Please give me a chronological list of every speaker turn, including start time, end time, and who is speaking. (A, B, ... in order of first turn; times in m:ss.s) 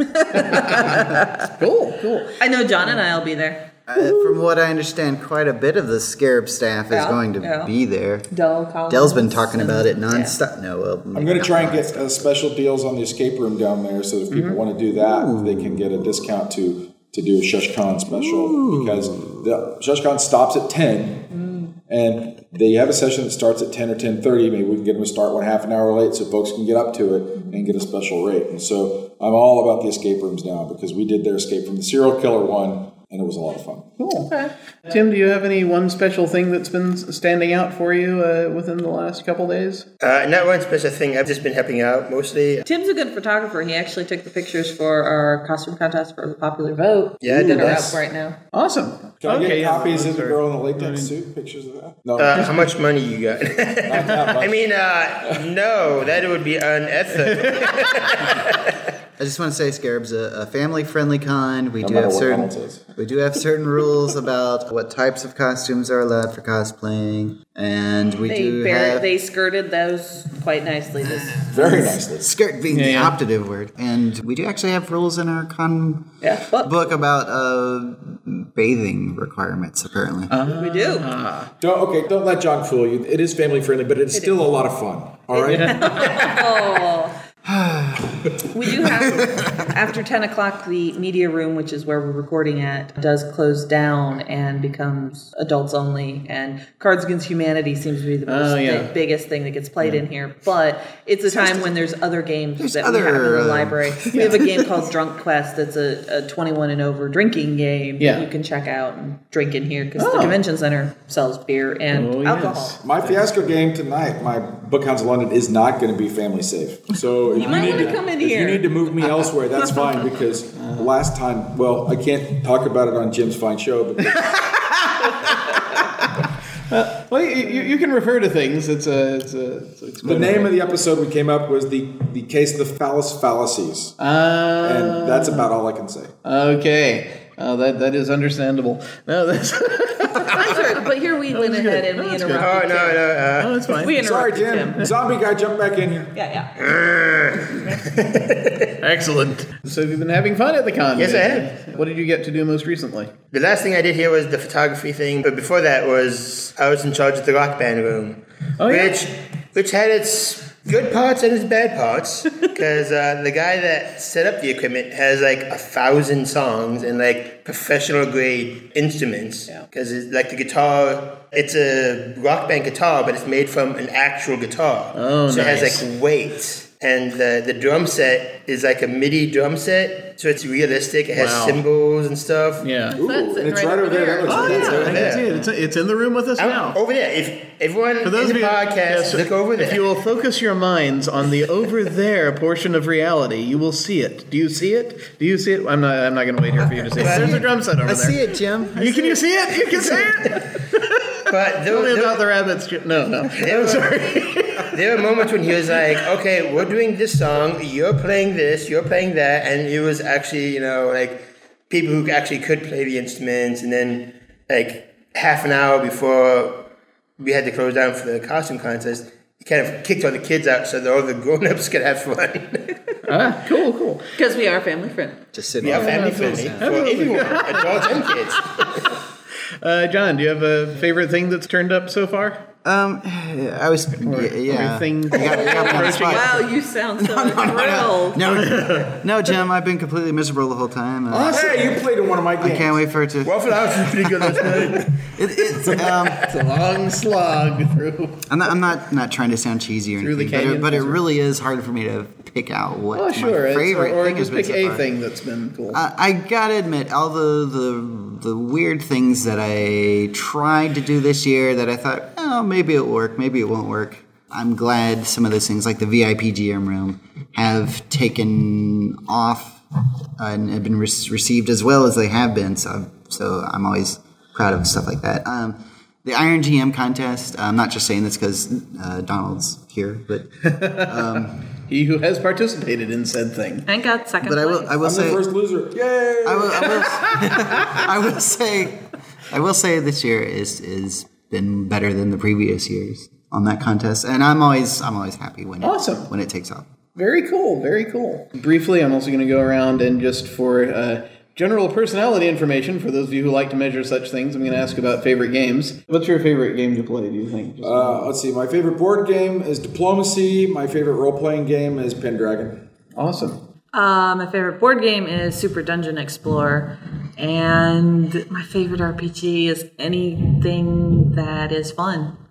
0:00.2-0:01.3 A
0:00.3-0:02.3 B
0:02.4-0:03.7 A
0:03.9-0:08.3 C
0:06.9-0:07.7 A
0:08.3-0:10.4 A
0:08.9-0:12.3 C
0:11.1-0:21.3 D
0:14.3-0:14.6 B
0:14.9-0:16.0 C
0:18.1-0:19.3 C
0:21.9-0:33.9 D
0:34.0-0:34.3 B
0:34.2-0:34.5 A
0:34.9-0:39.9 B
0:40.0-0:42.6 E
0:42.6-0:48.4 A
0:47.2-0:47.8 E
0:47.4-0:48.0 D
0:47.6-0:48.0 B
0:48.5-0:51.2 B
0:49.2-0:52.5 D
0:52.2-0:58.7 E
0:53.8-0:54.7 D
0:57.2-0:58.2 B
0:59.2-1:09.1 C
1:01.8-1:02.8 D
1:08.3-1:12.0 A
1:11.3-1:12.3 D
1:12.2-1:20.4 C
1:12.7-1:13.2 B
1:16.2-1:16.8 A
1:20.3-1:21.5 B
1:20.5-1:21.1 A
1:21.6-1:25.8 D
1:24.1-1:24.4 A
1:25.3-1:27.1 A
1:25.4-1:26.1 B
1:27.5-1:28.2 C
1:28.5-1:52.8 A
1:28.8-1:29.2 C
1:38.3-1:38.9 B
1:41.3-1:41.7 C
1:42.6-1:44.6 C
1:44.1-1:44.4 B
1:48.0-1:48.3 B
1:50.0-1:50.4 B
1:51.9-1:53.2 B
1:52.8-2:04.2 D
1:57.3-1:58.7 A
1:57.4-1:57.9 B
2:00.6-2:00.9 B
2:04.1-2:10.5 B
2:10.0-2:14.0 D
2:14.0-2:15.5 B
2:14.6-2:16.1 D
2:16.2-2:20.8 B
2:20.3-2:23.1 A
2:21.3-2:22.8 B
2:22.2-2:23.8 E
2:23.4-2:24.0 B
2:23.8-2:24.8 A
2:24.0-2:26.1 D
2:26.1-2:26.5 A
2:26.6-2:28.7 E
2:28.8-2:33.1 B
2:31.0-2:31.7 E
2:33.3-3:02.8 E
2:38.6-2:39.0 B
2:55.0-2:55.9 B
3:01.1-3:01.6 B
3:02.6-3:03.0 B
3:02.9-3:05.0 A
3:03.0-3:05.1 D
3:04.3-3:06.8 B
3:04.8-3:05.5 E
3:06.4-3:10.0 E
3:08.0-3:24.8 B
3:16.8-3:19.8 C
3:17.0-3:17.5 E
3:21.3-3:22.3 E
3:23.2-3:42.8 E
3:43.1-3:44.0 B
3:44.2-3:45.2 A
3:45.3-3:46.8 C
3:45.6-3:48.8 E
3:45.7-3:48.9 B
3:49.6-3:52.4 B
3:52.6-3:56.4 C
3:54.0-3:56.4 B
3:55.3-3:58.3 A
3:57.0-4:01.7 C
3:58.3-3:59.0 B
4:01.1-4:02.8 D
4:02.4-4:06.2 C
4:03.2-4:06.1 E
4:04.3-4:04.7 D
4:05.9-4:08.3 B
4:08.3-4:14.9 C
4:10.0-4:11.0 B
4:12.9-4:15.8 B
4:15.7-4:29.6 C
4:30.2-4:41.4 C
4:40.4-4:43.7 B
4:43.7-4:44.8 A
4:44.2-4:45.2 C
4:44.8-4:47.1 D
4:46.2-4:56.7 C
4:55.6-4:56.1 B
4:57.0-5:08.1 B
5:07.6-5:12.7 D
5:13.0-5:13.4 B
5:13.7-5:22.2 A